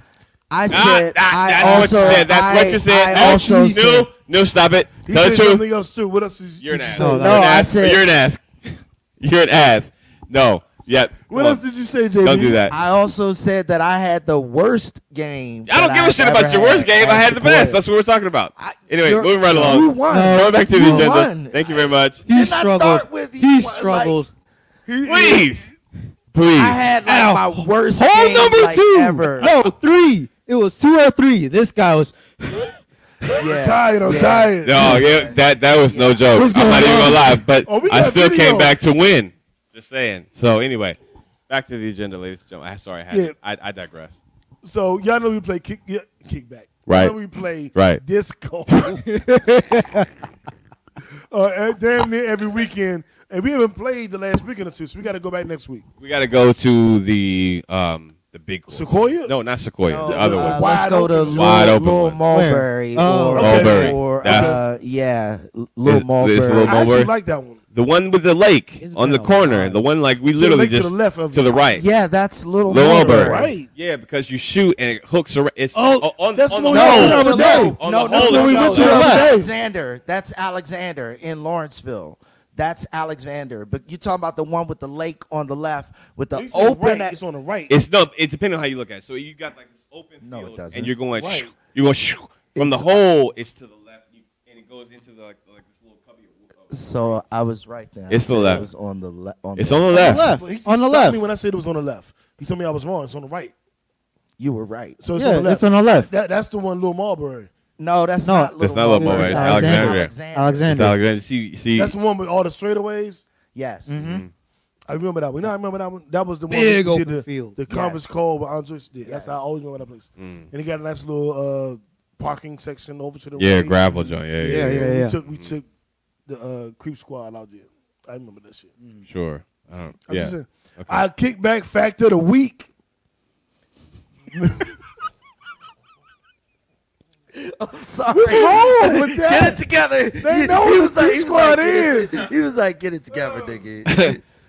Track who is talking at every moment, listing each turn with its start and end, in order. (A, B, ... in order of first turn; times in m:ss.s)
0:00.5-0:04.1 A
0:00.7-0:05.6 B
0:01.6-0:02.0 C
0:03.2-0:03.8 C
0:05.0-0:07.1 D
0:06.6-0:11.6 B
0:06.9-0:07.6 C
0:06.9-0:08.0 A
0:11.3-0:12.6 D
0:12.2-0:12.7 B
0:12.7-0:17.8 A
0:15.7-0:22.2 B
0:18.6-0:24.2 A
0:19.5-0:21.1 C
0:22.2-0:24.3 C
0:24.9-0:25.5 D
0:25.0-0:25.7 B
0:26.3-0:26.8 B
0:26.5-0:29.5 A
0:27.0-0:33.3 C
0:33.3-0:36.8 A
0:33.4-0:34.9 D
0:34.6-0:41.0 B
0:34.8-0:35.0 C
0:36.3-0:37.4 C
0:37.6-0:38.7 D
0:41.5-0:44.2 B
0:44.6-0:49.0 D
0:46.9-0:47.2 B
0:47.7-0:48.0 B
0:48.7-0:49.2 B
0:49.1-0:50.0 C
0:51.3-0:55.8 D
0:56.0-1:02.2 B
0:58.7-0:59.3 D
0:59.8-1:06.8 A
1:00.0-1:01.7 D
1:02.3-1:03.6 C
1:03.4-1:04.6 B
1:03.4-1:04.6 D
1:05.8-1:07.1 B
1:06.6-1:07.6 D
1:07.7-1:11.8 B
1:08.8-1:09.8 C
1:10.3-1:11.6 D
1:11.7-1:13.5 A
1:12.6-1:19.2 B
1:12.8-1:13.7 D
1:15.8-1:19.5 D
1:16.7-1:17.7 C
1:16.7-1:27.2 A
1:18.7-1:19.2 C
1:26.3-1:27.7 D
1:27.7-1:37.2 B
1:30.2-1:30.9 A
1:31.2-1:31.5 D
1:32.5-1:33.0 A
1:36.7-1:40.2 A
1:38.1-1:38.7 B
1:39.6-1:40.2 B
1:39.9-1:41.2 C
1:39.9-1:43.5 D
1:44.4-1:45.0 A
1:45.0-1:47.5 D
1:45.2-1:46.1 C
1:47.8-1:50.9 A
1:48.2-1:51.0 C
1:48.6-1:50.1 B
1:50.7-1:51.9 B
1:51.7-1:53.2 D
1:53.5-1:54.0 A
1:53.9-1:54.2 C
1:54.0-1:54.3 B
1:54.9-2:03.8 D
1:56.5-1:57.6 C
1:57.7-1:58.1 A
1:59.0-1:59.4 A
2:00.2-2:00.5 B
2:03.4-2:05.5 B
2:03.9-2:05.2 C
2:04.4-2:05.6 D
2:06.3-2:08.7 D
2:08.8-2:09.1 C
2:09.0-2:11.0 B
2:10.1-2:12.7 D
2:14.3-2:14.7 D
2:17.3-2:24.2 A
2:18.1-2:19.6 D
2:20.2-2:22.3 D
2:23.8-2:24.2 B